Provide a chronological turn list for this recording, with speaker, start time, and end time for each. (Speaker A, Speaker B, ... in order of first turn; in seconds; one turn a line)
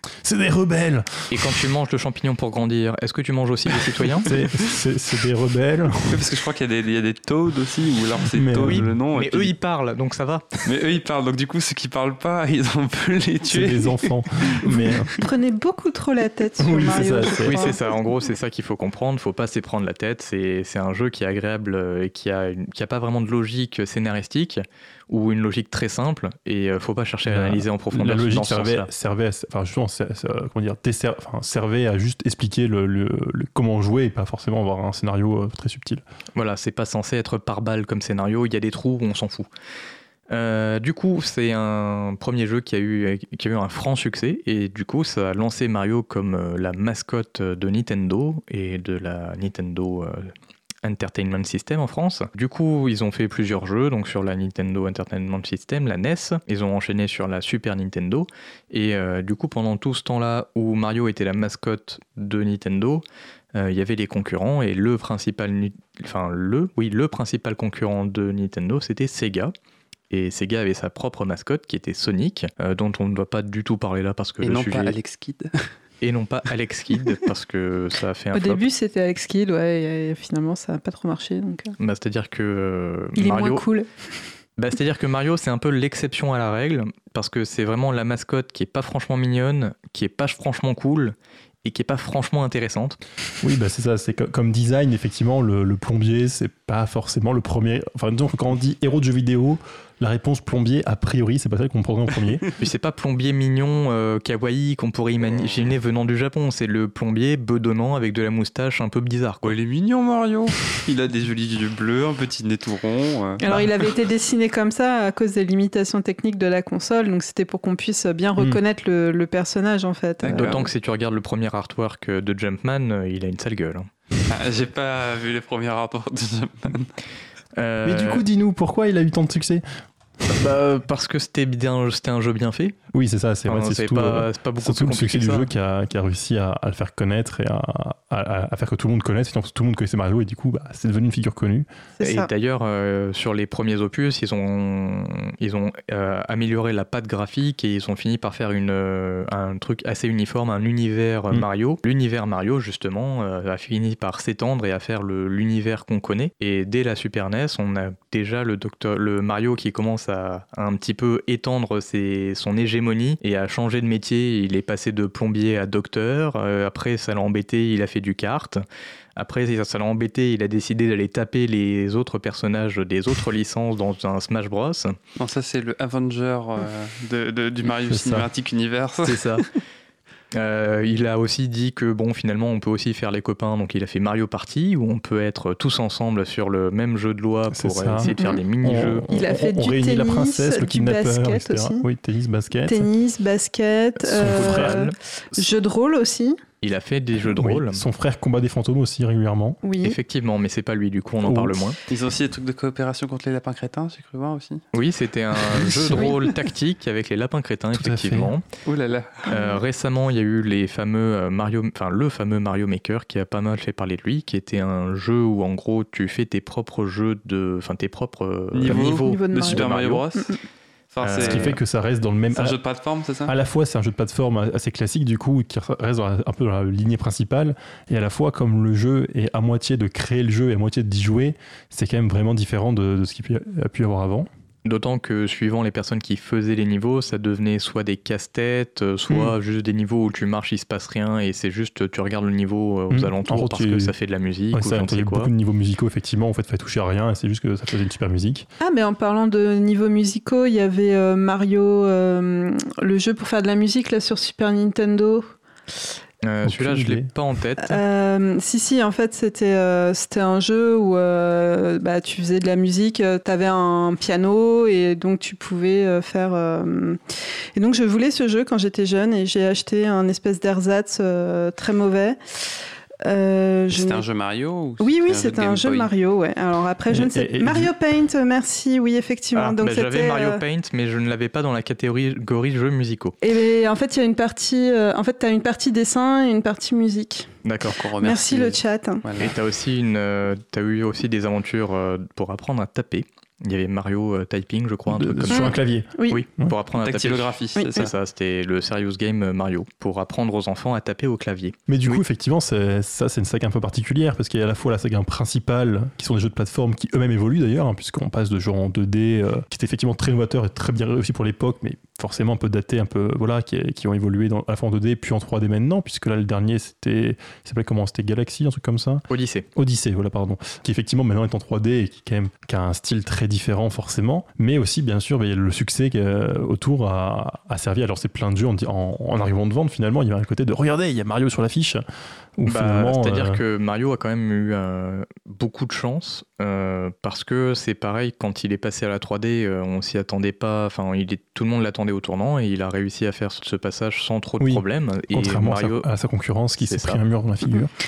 Speaker A: 0.2-1.6
Speaker B: 1.3-4.3
Speaker C: 3.7-4.6
Speaker A: 4.2-6.3
Speaker C: 6.1-9.5
Speaker A: 8.2-8.9
Speaker B: 8.7-10.7
Speaker C: 10.7-15.2
Speaker A: 13.5-15.1
Speaker D: 15.2-17.8
Speaker A: 16.6-17.8
Speaker B: 17.4-28.9
Speaker A: 27.3-36.0
Speaker B: 36.4-39.5
Speaker B: 40.3-50.3
Speaker B: 50.8-69.5
Speaker B: 70.1-75.0
Speaker C: 74.4-75.5
Speaker B: 76.0-78.7
Speaker D: 78.3-81.8
Speaker B: 81.8-83.6
Speaker D: 83.2-83.9
Speaker B: 84.6-93.0
Speaker A: 93.4-102.4
Speaker B: 102.6-109.5
Speaker C: 105.2-105.7
Speaker C: 109.5-113.4
Speaker D: 113.4-120.5
Speaker C: 120.2-120.7
Speaker B: 120.3-123.9
Speaker C: 124.3-126.9
Speaker B: 127.6-128.2
Speaker A: 127.8-129.6
Speaker A: 130.2-130.5
Speaker B: 130.3-132.8
Speaker A: 132.9-141.7
Speaker B: 133.5-135.5
Speaker D: 142.0-142.3
Speaker B: 142.0-168.6
Speaker B: 169.2-175.0
Speaker C: 175.2-179.4
Speaker A: 177.9-178.3
Speaker B: 179.0-179.4
Speaker B: 180.3-189.1
Speaker A: 187.5-192.9
Speaker D: 188.0-188.4
Speaker D: 189.1-191.8
Speaker D: 192.7-196.4
Speaker A: 194.0-195.5
Speaker B: 194.2-194.9
Speaker B: 196.6-197.8
Speaker A: 197.2-199.6
Speaker D: 199.6-200.0
Speaker B: 199.8-201.8
Speaker A: 201.2-201.6
Speaker C: 201.9-204.6
Speaker B: 204.7-208.4
Speaker A: 205.6-206.1
Speaker A: 207.7-208.3
Speaker C: 208.7-209.4
Speaker B: 209.3-220.1
Speaker C: 218.5-220.3
Speaker D: 218.9-219.7
Speaker C: 220.9-221.6
Speaker B: 221.0-221.6
Speaker A: 221.2-222.6
Speaker C: 222.3-223.3
Speaker A: 223.3-234.3
Speaker B: 234.7-245.3
Speaker A: 239.1-239.3
Speaker A: 242.9-243.9
Speaker A: 244.5-248.5
Speaker D: 248.6-255.3
Speaker B: 256.2-257.8
Speaker A: 256.4-257.1
Speaker D: 257.6-267.0
Speaker D: 267.6-272.2
Speaker D: 273.1-274.1
Speaker C: 273.7-275.9
Speaker D: 274.8-280.4
Speaker A: 276.9-277.7
Speaker B: 279.4-283.2
Speaker D: 283.2-287.3
Speaker B: 287.4-287.8
Speaker C: 287.8-289.3
Speaker D: 288.0-289.0
Speaker B: 289.2-302.0
Speaker A: 294.9-296.6
Speaker D: 295.3-296.2
Speaker C: 296.8-297.9
Speaker D: 297.6-297.9
Speaker A: 301.7-319.0
Speaker B: 319.1-319.5
Speaker A: 319.6-331.8
Speaker A: 332.4-333.4
Speaker B: 332.5-345.9
Speaker A: 344.4-347.7
Speaker B: 346.6-347.0